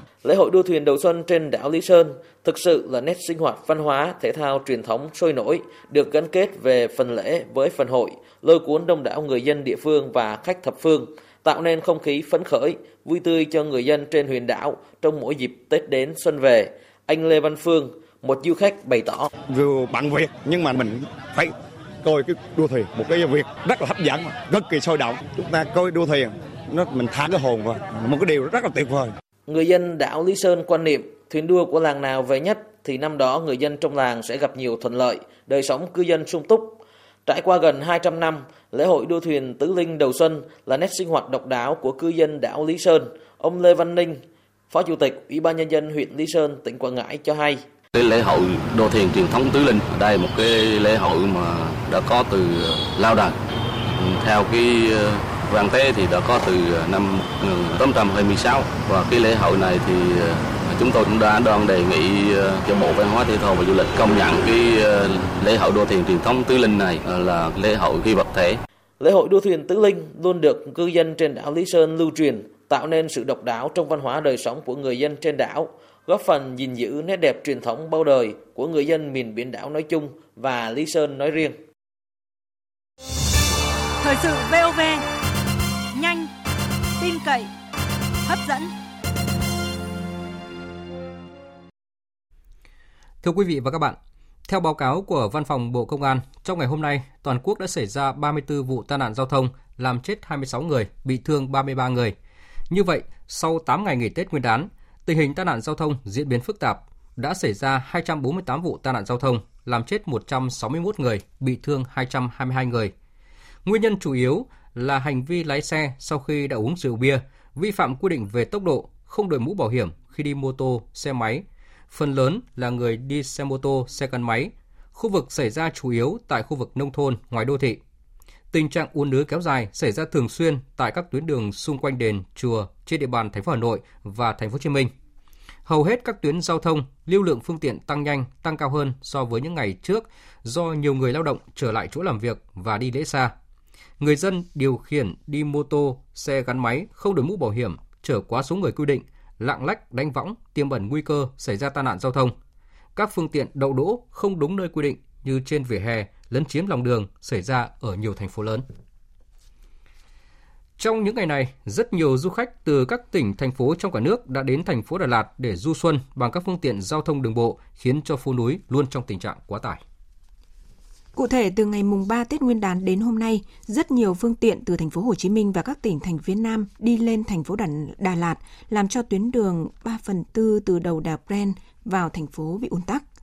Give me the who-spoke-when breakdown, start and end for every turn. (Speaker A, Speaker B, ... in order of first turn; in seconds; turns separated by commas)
Speaker A: 0.2-19.3, Speaker B: 19.5-29.1, Speaker A: 29.5-47.6, Speaker C: 47.9-53.4, Speaker C: 53.9-68.6, Speaker A: 69.0-81.6, Speaker D: 84.0-85.0, Speaker D: 86.0-86.3, Speaker D: 87.0-87.5, Speaker D: 88.3-88.7, Speaker E: 93.2-102.2, Speaker E: 102.7-112.9, Speaker E: 113.7-127.8, Speaker E: 128.5-134.9, Speaker E: 135.7-143.3, Speaker E: 144.0-152.3, Speaker E: 153.0-158.6, Speaker E: 160.8-169.8, Speaker F: 171.2-183.1